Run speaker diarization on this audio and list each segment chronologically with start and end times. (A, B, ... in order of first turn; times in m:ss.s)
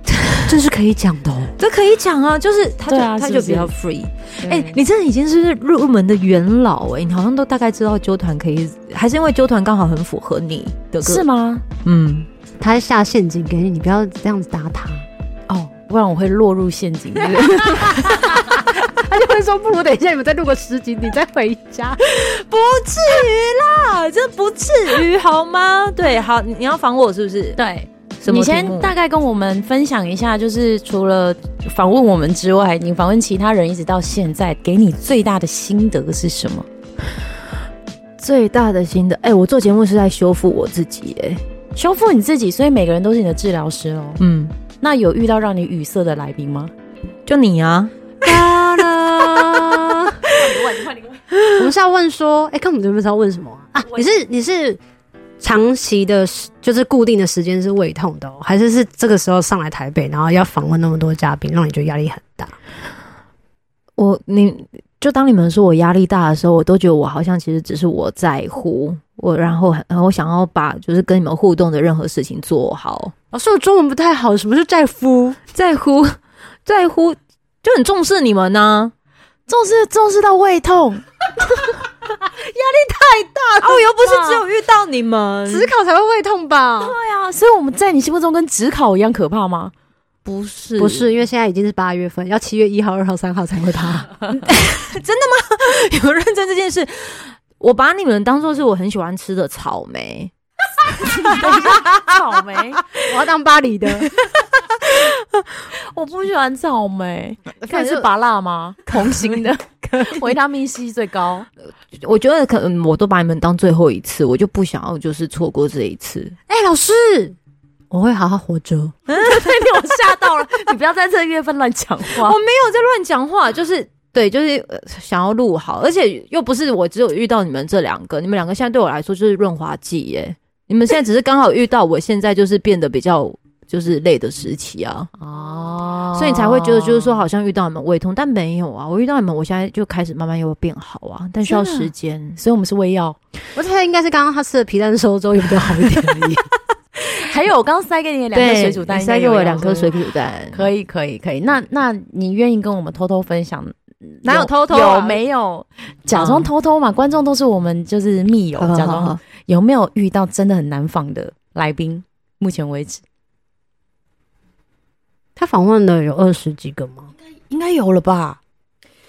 0:00.5-0:01.5 A
0:01.6-0:11.2 B
0:02.9-0:03.7 C
0:04.4-0:04.8 C
0:11.0-0:11.6 C
0:11.8-0:12.3 B
0:12.6-0:15.0 A
0:15.5-0:18.3 C
0:17.6-0:22.0 A
0:22.0-0:27.6 B
0:27.6-0:36.7 C
0:28.2-0:28.9 B
0:38.2-0:41.4 B
0:41.8-0:44.2 C
0:44.2-0:44.6 B
0:44.8-0:46.7 C
0:47.2-0:48.8 B
0:48.2-0:50.4 A
0:50.3-0:51.2 C
0:51.5-0:54.8 A
0:55.4-1:02.6 A
1:04.0-1:13.1 B
1:13.3-1:15.4 A
1:15.5-1:18.9 B
1:19.5-1:21.7 C
1:22.0-1:23.9 A
1:23.6-1:25.7 B
1:24.0-1:24.4 C
1:25.5-1:27.0 A
1:26.8-1:29.7 C
1:30.2-1:31.1 B
1:30.8-1:34.3 A
1:34.4-1:40.3 B
1:40.8-1:42.0 B
1:41.0-1:42.9 C
1:42.9-1:44.2 A
1:45.7-1:51.5 C
1:47.6-1:48.1 B
1:52.0-1:56.4 B
1:56.5-1:57.4 A
1:57.9-1:59.0 A
1:59.1-1:59.6 B
1:59.2-2:02.4 C
2:00.2-2:00.5 B
2:02.1-2:15.1 B
2:15.2-2:17.2 C
2:16.1-2:22.4 B
2:21.4-2:23.2 C
2:23.5-2:26.5 A
2:25.9-2:26.1 B
2:27.0-2:29.9 C
2:28.3-2:30.7 B
2:30.5-2:43.0 C
2:34.2-2:35.2 B
2:36.1-2:36.5 B
2:38.6-2:39.2 B
2:45.4-2:47.1 A
2:47.3-2:48.4 C